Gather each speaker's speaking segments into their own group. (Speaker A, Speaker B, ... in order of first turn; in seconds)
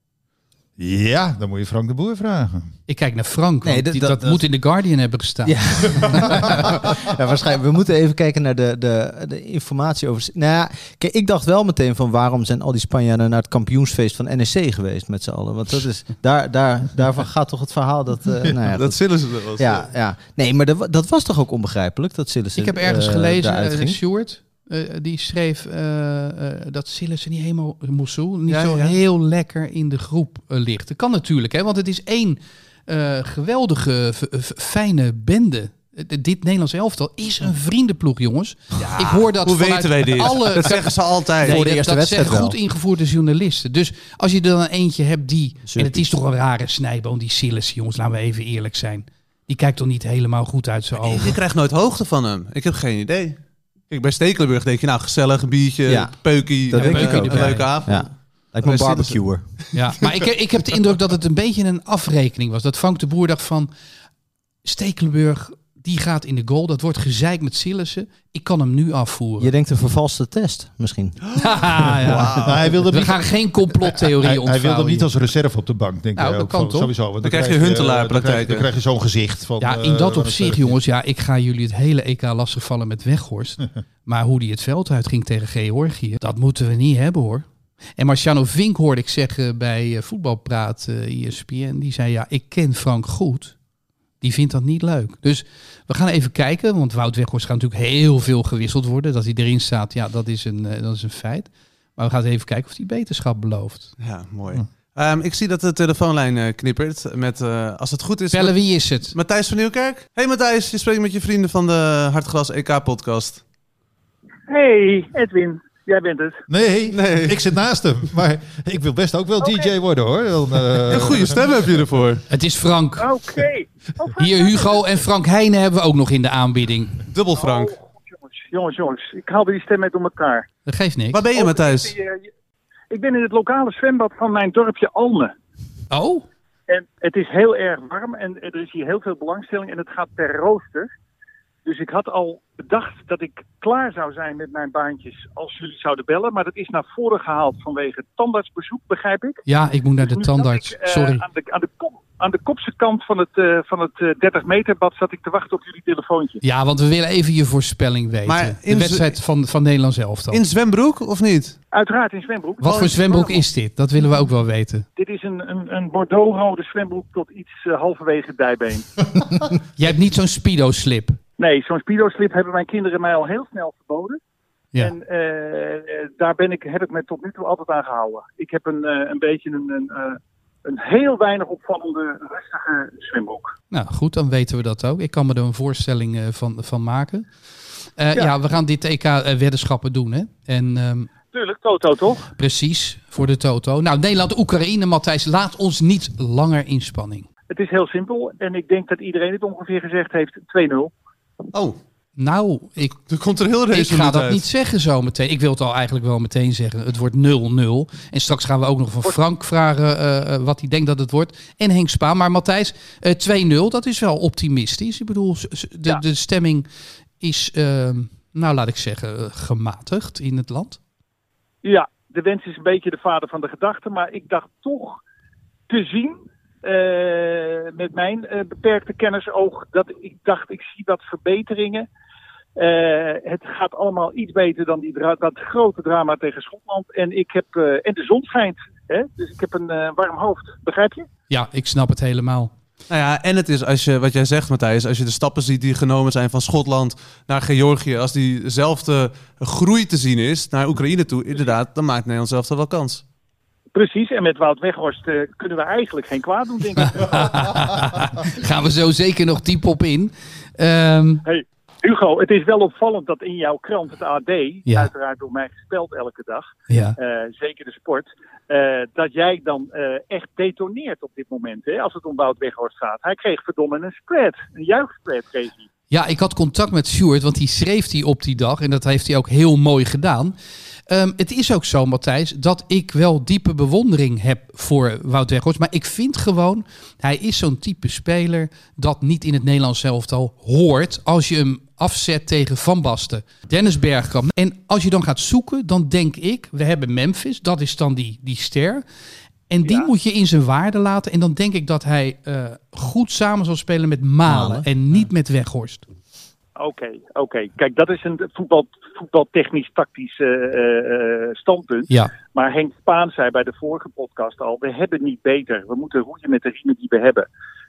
Speaker A: 0.8-2.7, 72.4-80.8, 116.5-121.4
Speaker B: 2.9-6.6, 22.6-51.4, 56.8-57.7, 59.7-63.7, 64.6-69.5, 71.4-75.1, 76.2-76.9, 79.6-93.6, 94.2-104.0, 108.3-109.2, 122.3-123.1, 124.2-127.0, 130.7-131.2, 135.9-136.2, 149.5-151.2, 156.4-160.4, 162.6-164.9, 169.8-171.2, 183.7-191.1, 192.4-197.3, 202.2-203.0, 203.7-216.7, 217.2-220.8, 241.3-242.5, 256.8-261.2, 266.7-267.0, 275.9-280.4, 280.9-298.9, 299.5-305.9
Speaker C: 3.6-4.5, 5.5-24.0, 41.4-42.6, 45.6-46.0, 55.9-59.6, 69.4-72.2, 304.2-305.1
Speaker D: 18.7-19.9, 28.5-29.0, 38.8-41.6, 51.0-53.4, 53.9-59.7, 72.0-72.8, 77.2-78.7, 104.0-113.4, 116.9-117.5, 120.9-122.2, 127.1-127.8, 131.1-131.9, 158.2-159.2, 160.3-161.6, 203.0-204.5, 242.9-253.0
Speaker E: 114.5-116.4, 119.4-119.7, 123.0-124.8, 127.4-130.5, 131.3-132.3, 132.9-135.3, 136.7-140.9, 141.7-149.4, 150.0-156.4, 161.7-163.5, 165.0-169.0, 171.4-174.2, 174.8-183.5, 191.3-192.3, 197.5-200.9, 221.6-225.0, 225.7-231.9, 232.6-241.1, 253.7-257.5, 261.2-275.7, 299.6-299.9, 306.6-317.3